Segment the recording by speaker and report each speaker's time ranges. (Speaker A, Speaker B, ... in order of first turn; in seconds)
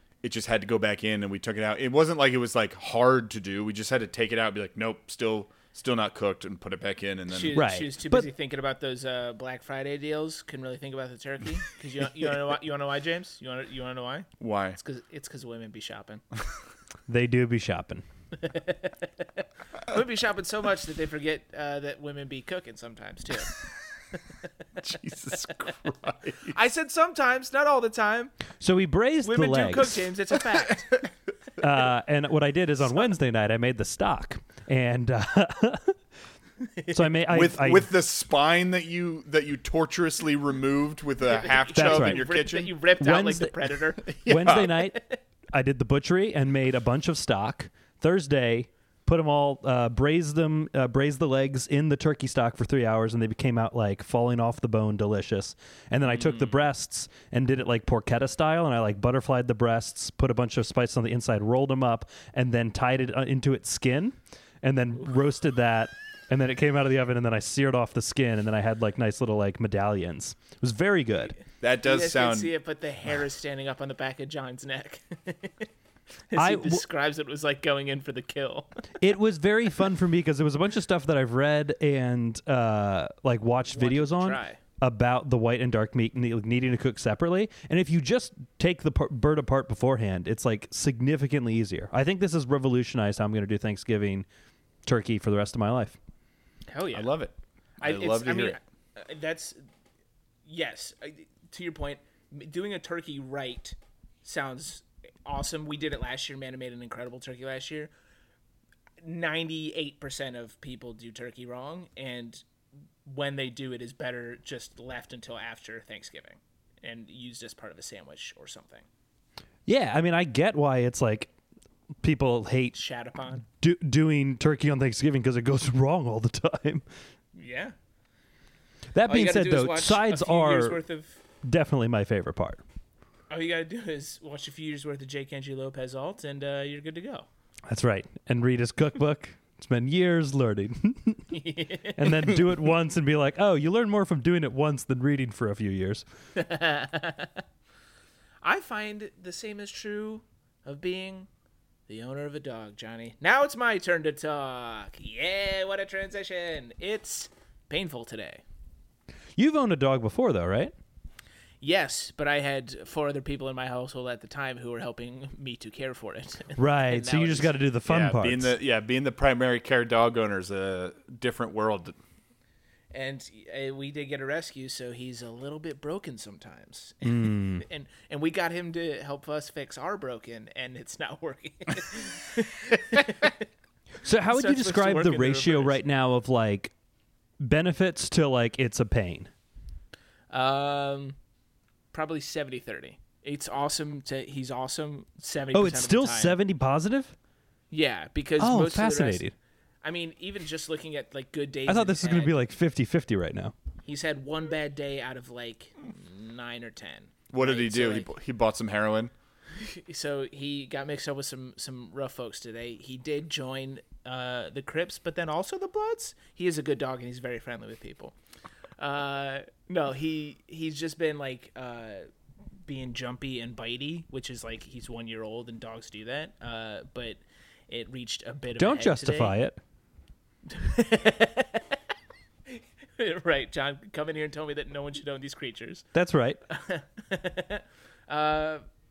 Speaker A: 0.2-7.7, 14.4-14.8, 24.8-26.6, 37.3-42.7, 44.1-44.8, 71.6-72.5, 96.9-98.6, 167.9-172.0, 207.3-209.1
Speaker B: 7.3-16.2, 18.4-23.6, 26.5-28.3, 29.2-31.1, 41.2-45.2, 71.8-75.7, 76.3-78.8, 83.7-84.6, 96.7-97.1, 97.8-99.6, 100.5-107.9, 109.0-112.4, 113.0-118.8, 122.7-123.4, 127.3-127.7, 129.1-131.2, 133.3-137.2, 141.3-142.4, 146.3-147.4, 148.4-151.3, 151.9-158.4, 161.6-167.5, 172.9-183.4, 184.3-185.8, 190.3-191.2, 191.9-196.4, 197.7-199.2, 199.8-202.3, 203.8-208.1, 209.6-218.1, 218.8-222.1, 222.7-229.3, 230.5-231.8, 232.5-235.9, 236.5-238.6
Speaker C: 7.5-8.3, 17.1-18.0, 28.6-30.1, 31.6-36.0, 36.9-37.9, 41.8-42.2, 43.0-43.5, 44.1-45.0, 45.5-71.3, 76.3-76.8, 79.0-94.2, 94.8-96.0, 119.7-121.3, 122.0-122.8, 123.5-126.8, 128.9-130.8, 131.4-132.6, 137.7-146.0, 159.3-160.7, 166.6-168.5, 177.0-177.6, 184.0-186.7, 187.4-189.3, 195.5-197.1, 198.4-199.3, 201.7-203.5, 228.6-229.6, 235.9-236.4